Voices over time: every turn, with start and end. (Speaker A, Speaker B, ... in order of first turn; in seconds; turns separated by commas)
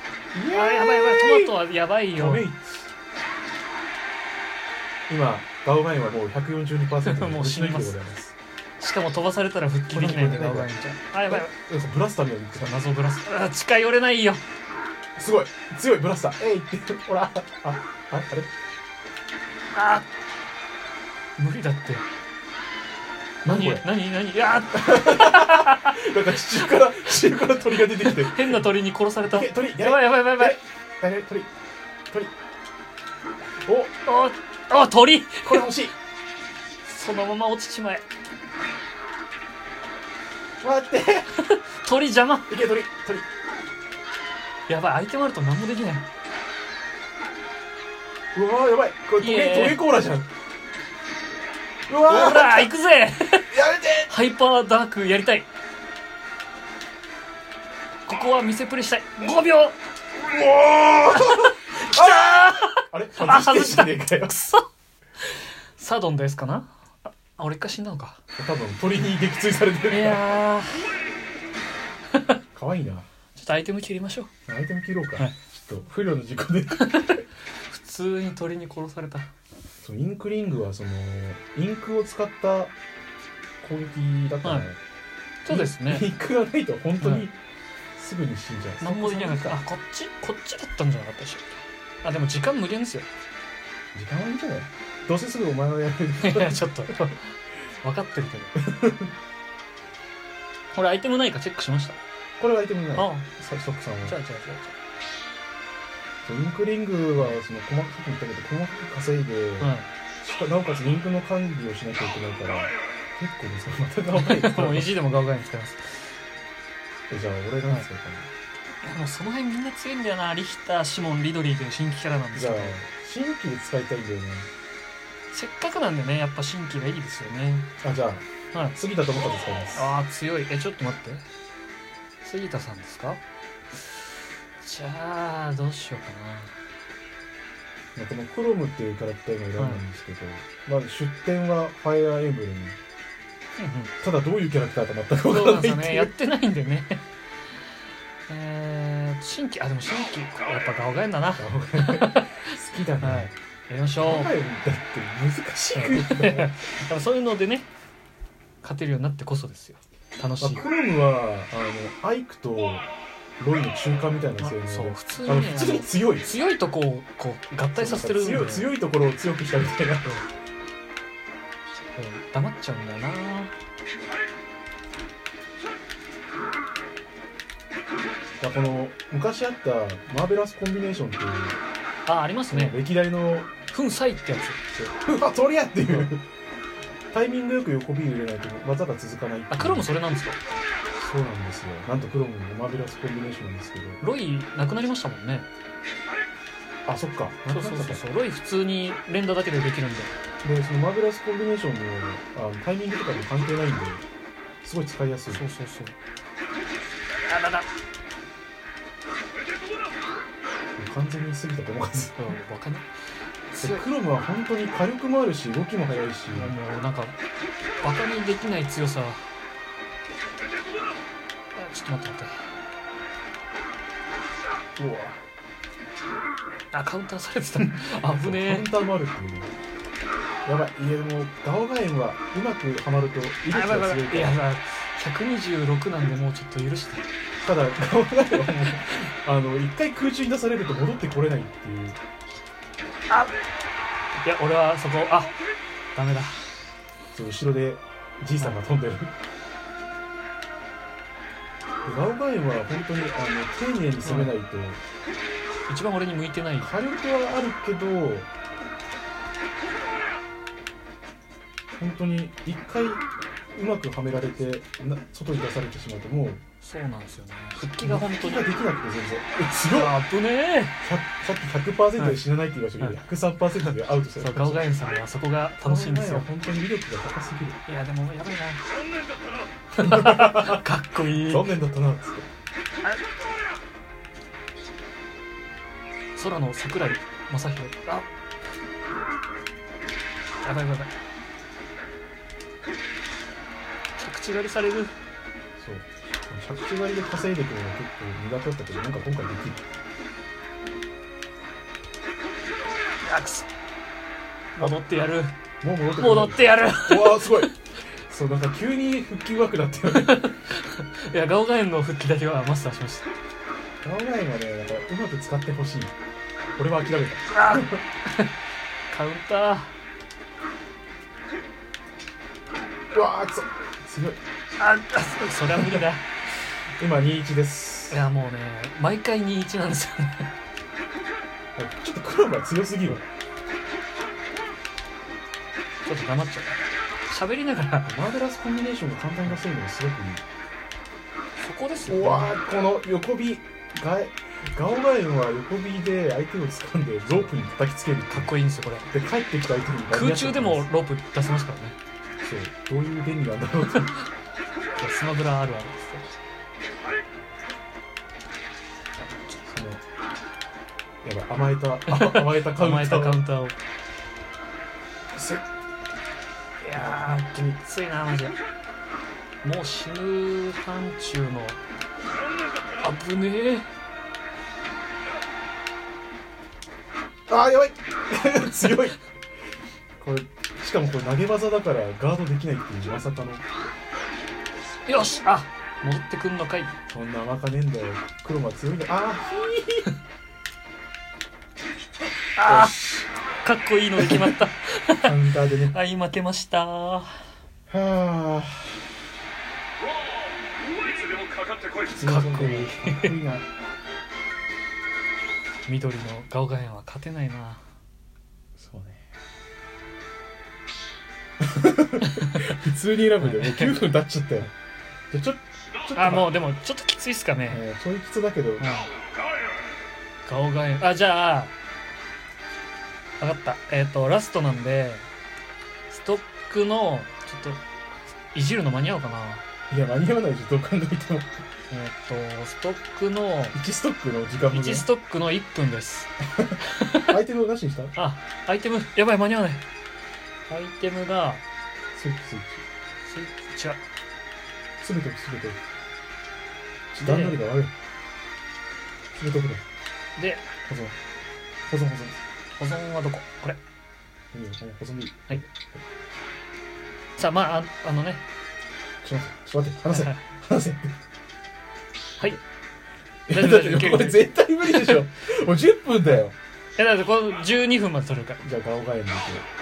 Speaker A: 0.3-1.6, Speaker B: 0.5-2.5, Speaker A: 2.1-2.7, Speaker A: 5.1-8.3, Speaker B: 7.0-8.0, Speaker B: 8.8-11.5, Speaker A: 9.9-10.7, Speaker A: 11.3-12.8, Speaker B: 12.6-14.4, Speaker A: 15.2-18.5, Speaker B: 19.8-20.1, Speaker B: 21.4-22.1, Speaker A: 23.4-23.9, Speaker B: 23.4-26.0, Speaker A: 24.7-28.6, Speaker B: 27.8-30.6, Speaker A: 29.2-31.5, Speaker A: 33.6-33.9, Speaker B: 34.1-35.7, Speaker A: 35.4-36.0, Speaker B: 36.9-38.0, Speaker A: 40.6-41.3, Speaker B: 41.4-42.5, Speaker A: 42.5-43.3, Speaker B: 44.7-46.1, Speaker A: 48.3-50.3, Speaker B: 49.2-49.8, Speaker A: 51.9-52.7, Speaker B: 52.0-53.5, Speaker A: 53.5-54.1, Speaker B: 54.1-55.5, Speaker B: 58.1-59.8, Speaker A: 60.3-64.3, Speaker B: 61.1-64.7, Speaker B: 65.2-68.2, Speaker A: 68.4-70.4, Speaker B: 69.9-70.9, Speaker A: 72.5-73.1, Speaker B: 73.4-74.3, Speaker A: 74.5-77.2, Speaker B: 76.8-79.3, Speaker A: 79.8-82.7, Speaker A: 83.6-84.8, Speaker B: 84.4-84.7, Speaker B: 85.5-86.1, Speaker A: 85.5-87.3, Speaker B: 87.0-87.3, Speaker A: 88.0-89.6, Speaker B: 88.8-93.1, Speaker A: 94.0-97.0, Speaker B: 96.2-98.6, Speaker A: 98.6-99.1, Speaker B: 100.7-102.0, Speaker A: 102.4-104.2, Speaker B: 103.0-103.3, Speaker B: 104.0-104.8, Speaker A: 106.2-114.9, Speaker B: 109.6-109.9, Speaker B: 114.1-116.1, Speaker A: 117.1-118.3, Speaker B: 118.8-122.8, Speaker A: 122.3-124.5, Speaker B: 125.3-127.7, Speaker A: 127.8-130.0, Speaker B: 129.8-131.2, Speaker B: 132.2-133.2, Speaker B: 134.6-136.6, Speaker A: 138.0-142.8, Speaker B: 139.6-139.8, Speaker B: 143.6-143.9, Speaker A: 144.0-146.1, Speaker B: 145.2-147.0, Speaker B: 148.3-152.5, Speaker A: 151.3-153.3, Speaker B: 153.0-154.3, Speaker A: 154.0-156.6, Speaker B: 155.8-157.7, Speaker B: 158.6-160.6, Speaker A: 160.4-162.8, Speaker A: 163.4-166.4, Speaker B: 164.4-168.7, Speaker A: 167.8-170.2, Speaker B: 172.0-173.5, Speaker A: 178.4-181.6, Speaker B: 182.1-182.8, Speaker A: 182.5-183.5, Speaker B: 183.7-184.6, Speaker A: 184.7-186.2, Speaker A: 187.1-189.9, Speaker B: 189.5-190.4, Speaker A: 190.9-194.0, Speaker B: 194.0-195.5, Speaker A: 196.9-198.1, Speaker B: 197.4-200.1, Speaker A: 200.4-204.0, Speaker A: 204.6-205.4, Speaker B: 205.3-205.9, Speaker B: 207.3-207.7, Speaker A: 210.8-212.4, Speaker B: 212.2-212.9, Speaker B: 213.5-213.9, Speaker A: 213.6-216.6, Speaker B: 216.3-217.2, Speaker B: 217.8-219.2, Speaker B: 221.6-222.4, Speaker A: 224.8-225.2, Speaker B: 226.7-228.7, Speaker A: 227.6-229.5, Speaker A: 230.4-234.4, Speaker B: 233.5-237.1, Speaker A: 237.4-242.0, Speaker B: 243.1-243.4, Speaker B: 244.2-245.3, Speaker B: 245.9-246.4, Speaker A: 247.1-249.1, Speaker A: 251.8-254.8, Speaker B: 254.0-254.3, Speaker B: 255.7-256.7, Speaker A: 256.6-258.3, Speaker A: 261.8-266.4, Speaker B: 266.6-268.5, Speaker A: 267.8-270.0, Speaker B: 269.7-270.8, Speaker A: 270.8-274.8, Speaker B: 274.2-276.3, Speaker A: 275.6-277.6, Speaker B: 277.7-278.6, Speaker B: 279.8-281.5, Speaker A: 279.8-282.3, Speaker B: 286.2-288.1, Speaker B: 290.4-290.9, Speaker B: 294.0-294.9, Speaker A: 295.6-299.7, Speaker B: 303.0-303.5, Speaker B: 304.6-305.3, Speaker A: 305.6-307.5, Speaker B: 306.0-307.5, Speaker A: 308.1-310.3, Speaker B: 309.9-313.1, Speaker A: 313.8-315.9, Speaker A: 316.6-317.8, Speaker B: 317.3-318.3, Speaker B: 318.9-319.7, Speaker A: 322.9-324.2, Speaker B: 324.6-326.1, Speaker A: 325.5-325.9, Speaker A: 326.8-328.1, Speaker B: 327.9-330.3, Speaker A: 331.6-333.0, Speaker B: 335.9-336.5, Speaker B: 337.1-337.9, Speaker A: 337.9-340.2, Speaker B: 341.4-342.3, Speaker A: 341.9-348.3, Speaker B: 347.1-347.4, Speaker B: 348.1-348.9, Speaker A: 348.9-350.7, Speaker B: 349.9-351.8, Speaker A: 352.2-353.9, Speaker B: 353.7-354.1, Speaker B: 354.8-356.1, Speaker A: 359.4-359.8, Speaker A: 361.0-363.2, Speaker B: 361.9-363.6, Speaker A: 365.1-365.4, Speaker B: 366.6-368.4, Speaker A: 366.7-367.6, Speaker B: 369.4-371.6, Speaker B: 372.8-373.7, Speaker A: 377.3-379.0, Speaker A: 380.0-383.4, Speaker B: 384.9-386.7, Speaker A: 386.9-389.9, Speaker B: 392.4-392.7, Speaker A: 392.5-393.1, Speaker B: 393.4-397.1, Speaker A: 394.0-394.4, Speaker A: 395.0-395.8, Speaker A: 397.7-398.8, Speaker A: 401.9-403.4, Speaker B: 402.0-403.1, Speaker B: 405.7-407.6, Speaker A: 408.6-409.1, Speaker A: 411.4-414.5, Speaker B: 412.1-412.6, Speaker B: 413.2-413.8, Speaker A: 415.1-416.4, Speaker B: 415.9-417.6, Speaker A: 417.5-418.7, Speaker B: 418.6-418.9, Speaker B: 420.3-421.5, Speaker B: 423.2-425.1, Speaker B: 425.9-427.6, Speaker B: 428.3-429.4, Speaker A: 429.7-431.5, Speaker B: 431.7-433.6, Speaker A: 433.5-434.9, Speaker B: 434.5-436.1, Speaker A: 436.4-437.9, Speaker B: 436.6-437.1, Speaker B: 438.0-439.6, Speaker B: 440.5-441.4, Speaker A: 441.9-442.6, Speaker B: 443.1-443.8, Speaker A: 444.8-445.6, Speaker A: 446.9-447.7, Speaker B: 447.0-447.4, Speaker A: 449.2-449.6, Speaker B: 450.2-450.4, Speaker A: 450.7-451.0, Speaker A: 451.7-452.1, Speaker B: 452.6-453.6, Speaker A: 454.3-455.8, Speaker B: 457.2-458.2, Speaker A: 459.0-460.9, Speaker B: 459.9-460.2, Speaker A: 463.3-466.4, Speaker B: 463.3-465.0, Speaker B: 466.8-468.4, Speaker A: 468.4-469.4